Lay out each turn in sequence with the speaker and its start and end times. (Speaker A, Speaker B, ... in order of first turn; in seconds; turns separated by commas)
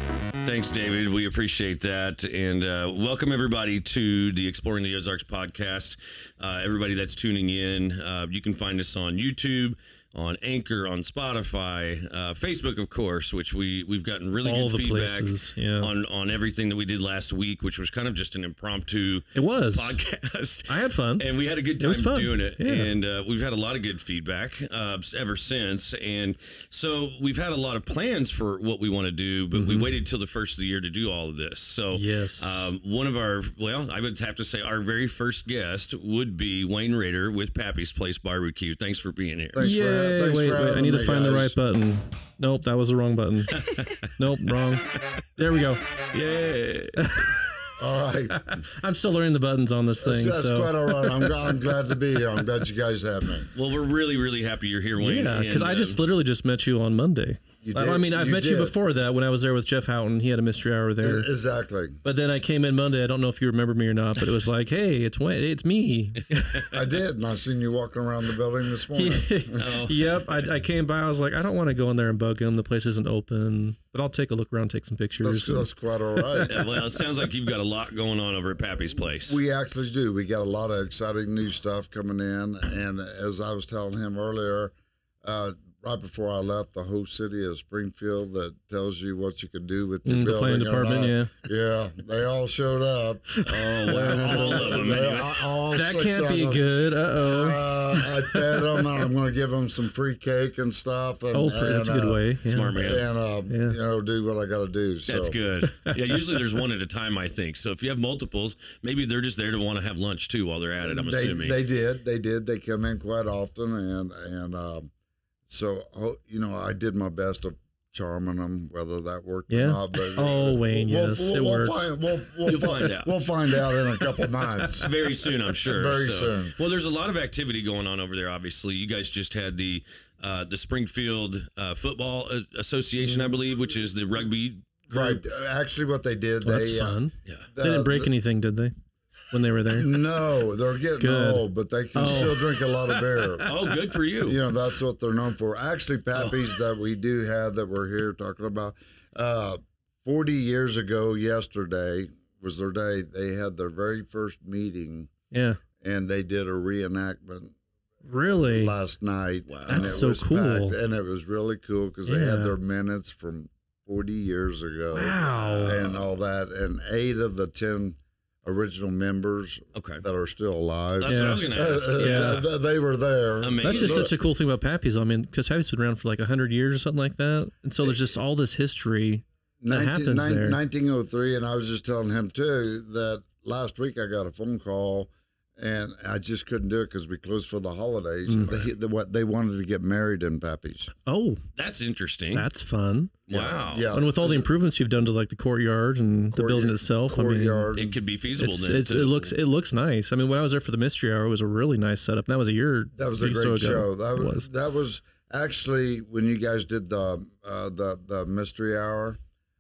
Speaker A: 0.4-39.6, Speaker B: 14.4-15.9, Speaker B: 19.3-19.9, Speaker B: 20.7-21.2, Speaker B: 21.8-22.9, Speaker B: 29.5-29.9, Speaker B: 31.9-32.6, Speaker C: 39.5-41.5, Speaker B: 39.6-43.6, Speaker A: 43.5-44.1, Speaker B: 44.2-44.8, Speaker B: 45.4-45.8, Speaker A: 46.1-47.0, Speaker B: 47.0-47.4, Speaker C: 47.8-48.6, Speaker B: 48.3-51.3, Speaker C: 50.0-53.5, Speaker A: 53.5-56.0, Speaker B: 55.0-61.3, Speaker C: 57.6-58.8, Speaker C: 61.0-62.0, Speaker B: 62.0-66.7, Speaker C: 66.7-69.7, Speaker B: 68.9-76.5, Speaker A: 69.6-70.0, Speaker C: 75.2-76.6, Speaker A: 76.5-79.4, Speaker C: 79.3-105.4, Speaker B: 90.0-91.3, Speaker B: 93.4-94.9, Speaker A: 93.5-95.4, Speaker B: 95.7-99.0, Speaker B: 101.3-102.8, Speaker A: 102.5-103.1, Speaker B: 103.5-103.8, Speaker A: 105.1-111.6, Speaker B: 105.6-106.6, Speaker C: 110.8-114.9, Speaker C: 115.5-124.9, Speaker B: 119.5-121.8, Speaker A: 122.5-135.1, Speaker C: 125.5-126.5, Speaker C: 134.9-138.1, Speaker B: 136.4-138.7, Speaker B: 139.3-139.9, Speaker C: 139.7-155.1, Speaker B: 141.0-142.6, Speaker A: 143.4-144.4, Speaker B: 155.3-155.6, Speaker C: 155.8-157.6, Speaker B: 158.0-158.8, Speaker C: 158.4-174.1, Speaker A: 159.5-160.0, Speaker B: 159.7-160.8, Speaker B: 162.1-162.5, Speaker B: 164.9-165.8, Speaker A: 165.2-166.0, Speaker A: 169.7-170.0, Speaker A: 171.0-172.5, Speaker B: 171.1-172.4, Speaker A: 173.4-174.1, Speaker B: 173.6-180.6, Speaker C: 179.6-190.9, Speaker B: 188.2-188.6, Speaker B: 191.1-191.4, Speaker A: 191.6-192.5, Speaker B: 192.3-193.1, Speaker A: 193.3-193.9, Speaker C: 193.3-194.5, Speaker B: 193.9-197.7, Speaker C: 196.3-198.0, Speaker A: 197.8-199.3, Speaker B: 198.3-204.5, Speaker C: 202.9-209.2